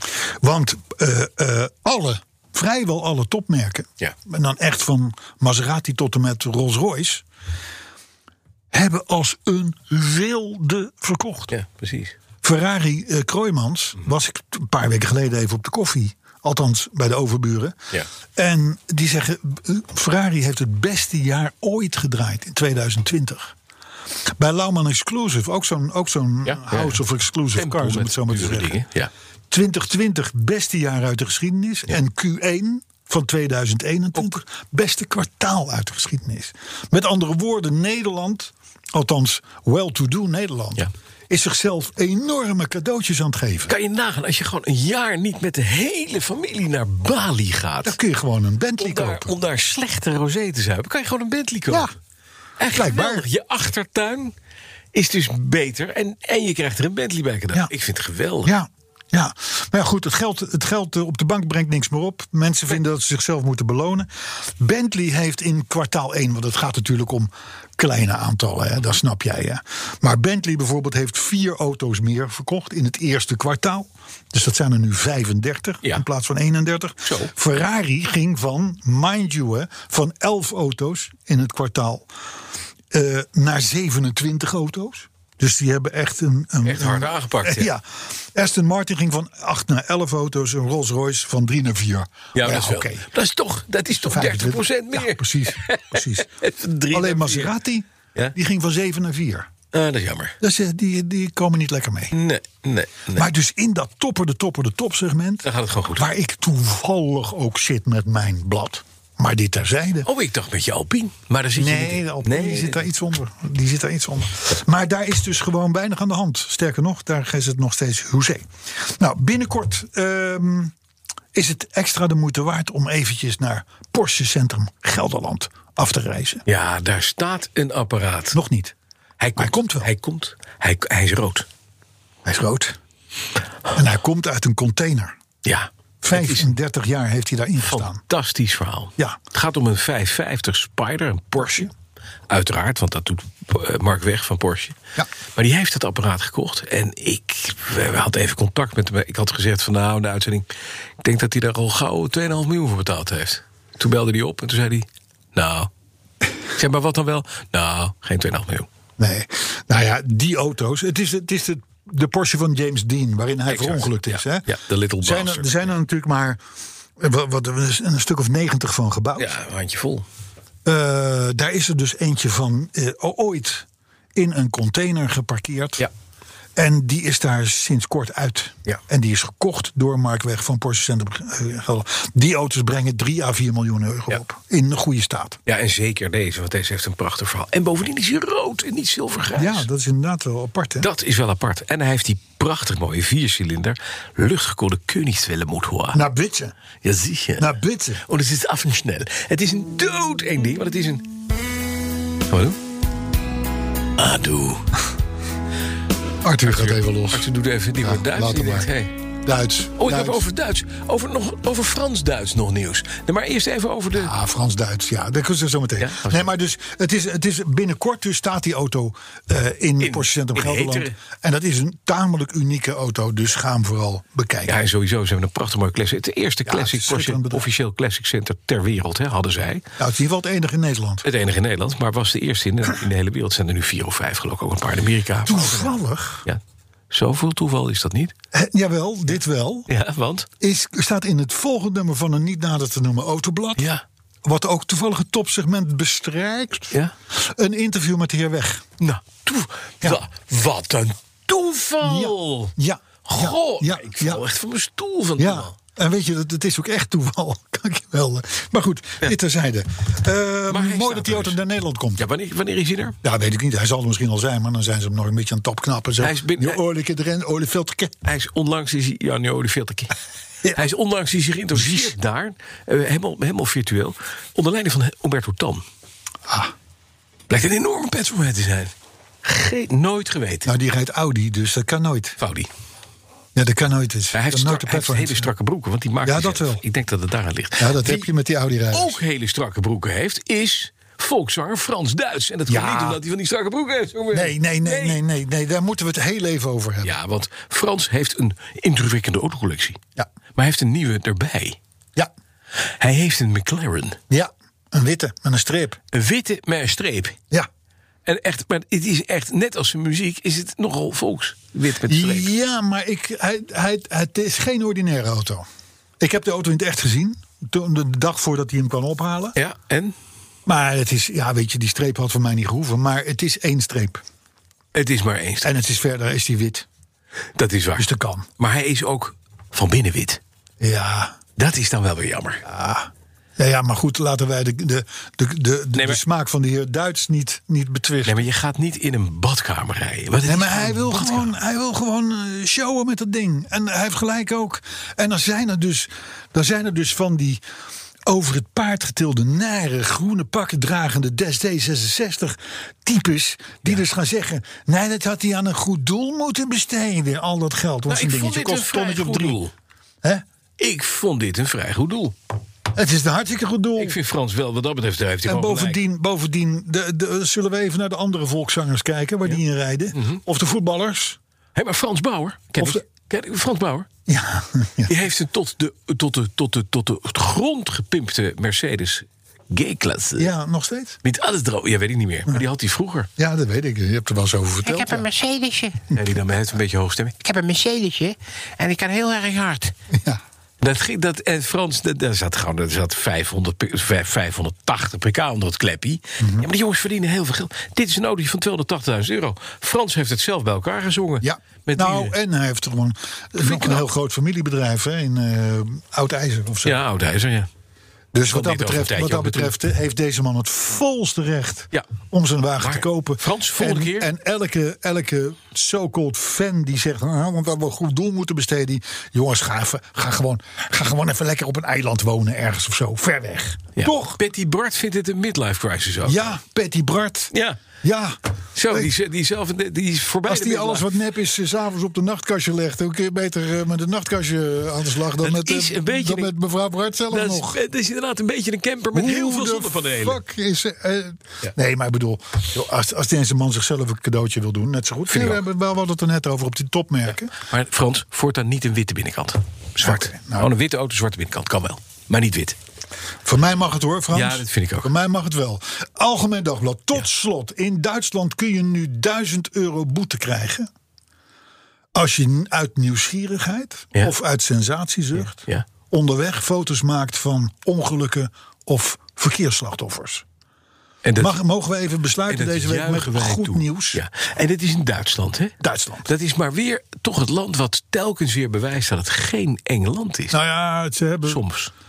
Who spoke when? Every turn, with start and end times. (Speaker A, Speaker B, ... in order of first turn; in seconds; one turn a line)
Speaker A: 0.4-7.2
Speaker A: 8.7-11.5
Speaker B: 11.5-12.2
Speaker A: 12.4-17.8
Speaker A: 18.4-23.5
Speaker A: 24.4-28.8
Speaker B: 26.4-27.0
Speaker B: 27.5-29.1
Speaker A: 29.5-43.7
Speaker B: 43.7-48.0
Speaker A: 47.8-49.3
Speaker B: 48.8-51.9
Speaker B: 52.6-54.3
Speaker A: 52.7-53.2
Speaker B: 54.9-58.5
Speaker A: 58.4-82.1
Speaker B: 77.0-77.3
Speaker A: 82.9-93.0
Speaker B: 86.6-87.7
Speaker B: 92.3-97.5
Speaker A: 93.9-96.3
Speaker A: 96.9-99.5
Speaker B: 99.7-100.3
Speaker A: 100.4-102.1
Speaker B: 102.1-103.3
Speaker A: 103.1-110.1
Speaker B: 105.4-106.1
Speaker B: 110.0-112.8
Speaker A: 111.5-120.7
Speaker A: 121.3-126.4
Speaker B: 126.5-128.4
Speaker A: 128.3-128.7
Speaker B: 129.2-131.5
Speaker A: 129.3-129.9
Speaker A: 132.2-132.8
Speaker A: 133.7-135.2
Speaker B: 135.4-136.5
Speaker A: 136.0-138.0
Speaker B: 137.6-141.7
Speaker A: 141.4-141.7
Speaker B: 142.3-144.8
Speaker B: 145.3-150.5
Speaker B: 151.0-155.7
Speaker B: 156.5-158.7
Speaker A: 159.0-164.5
Speaker B: 163.5-165.7
Speaker A: 165.0-166.4
Speaker A: 167.0-169.3
Speaker B: 169.2-170.0
Speaker A: 170.6-175.8
Speaker A: 176.6-185.4
Speaker B: 185.4-189.7
Speaker A: 189.3-190.9
Speaker B: 190.8-196.0
Speaker A: 195.9-196.5
Speaker B: 196.8-197.5
Speaker A: 197.4-198.0
Speaker B: 198.1-201.0
Speaker B: 202.3-202.6
Speaker B: 204.0-204.6
Speaker A: 206.2-207.3
Speaker B: 206.4-208.9
Speaker A: 207.8-208.7
Speaker A: 209.2-210.2
Speaker B: 209.8-214.1
Speaker A: 213.9-224.6
Speaker B: 215.8-216.3
Speaker B: 219.8-220.9
Speaker B: 224.4-229.6
Speaker A: 226.4-227.5
Speaker A: 229.8-231.0
Speaker B: 231.0-236.4
Speaker A: 235.2-236.2
Speaker B: 236.9-238.1
Speaker A: 238.3-239.7
Speaker B: 239.7-240.3
Speaker A: 240.4-243.7
Speaker B: 243.6-243.8
Speaker A: 244.2-248.7
Speaker B: 248.8-252.5
Speaker A: 251.8-254.2
Speaker B: 253.0-255.5
Speaker A: 255.2-262.1
Speaker B: 260.5-261.4
Speaker B: 262.0-263.0
Speaker A: 263.0-268.0
Speaker B: 266.0-266.6
Speaker B: 268.0-269.9
Speaker B: 270.5-275.6
Speaker A: 271.5-271.9
Speaker A: 276.3-276.5
Speaker B: 277.3-278.7
Speaker B: 279.2-280.5
Speaker A: 280.4-282.2
Speaker B: 282.2-282.5
Speaker A: 283.3-285.3
Speaker B: 284.1-288.1
Speaker A: 286.0-286.6
Speaker A: 287.6-289.0
Speaker B: 288.7-295.0
Speaker A: 292.5-293.0
Speaker A: 294.1-296.9
Speaker B: 296.8-299.8
Speaker B: 300.4-301.6
Speaker B: 302.8-304.0
Speaker A: 304.1-305.8
Speaker B: 305.9-307.2
Speaker B: 308.1-312.3
Speaker A: 311.9-315.4
Speaker A: 316.0-319.4
Speaker B: 319.4-319.9
Speaker A: 320.4-324.0
Speaker B: 324.7-325.5
Speaker A: 325.4-326.7
Speaker B: 327.4-327.9
Speaker A: 327.8-328.3
Speaker B: 328.4-330.2
Speaker A: 330.6-331.2
Speaker B: 331.4-332.4
Speaker A: 332.4-338.2
Speaker B: 335.7-336.0
Speaker B: 338.0-341.3
Speaker A: 340.2-347.4
Speaker A: 348.1-359.4
Speaker B: 357.9-359.5
Speaker B: 360.6-362.1
Speaker A: 362.7-364.0
Speaker B: 363.8-365.8
Speaker A: 365.2-371.2
Speaker B: 369.9-370.2
Speaker B: 371.5-373.9
Speaker A: 374.1-374.9
Speaker B: 374.9-380.3
Speaker A: 380.2-381.0
Speaker B: 381.0-383.1
Speaker A: 383.2-385.0
Speaker C: 384.6-385.8
Speaker B: 385.9-387.1
Speaker C: 387.2-389.7
Speaker A: 389.9-390.2
Speaker B: 390.6-402.1
Speaker A: 396.2-396.5
Speaker A: 401.2-406.8
Speaker B: 403.4-403.8
Speaker B: 406.6-407.5
Speaker A: 408.1-424.2
Speaker B: 408.3-409.5
Speaker B: 412.6-414.1
Speaker B: 423.8-426.4
Speaker A: 426.0-427.3
Speaker B: 427.3-427.6
Speaker A: 427.8-428.2
Speaker B: 428.5-430.9
Speaker A: 430.2-437.6
Speaker B: 435.2-436.3
Speaker B: 437.1-440.2
Speaker A: 438.9-447.3
Speaker B: 445.1-445.4
Speaker B: 447.4-452.6
Speaker A: 449.8-450.5
Speaker A: 453.2-460.7
Speaker B: 454.1-454.9
Speaker A: 461.9-470.2
Speaker B: 471.0-471.4
Speaker A: 471.2-474.0
Speaker B: 472.3-475.5
Speaker A: 475.6-476.1
Speaker B: 476.1-480.4
Speaker A: 480.3-481.4
Speaker B: 481.2-481.7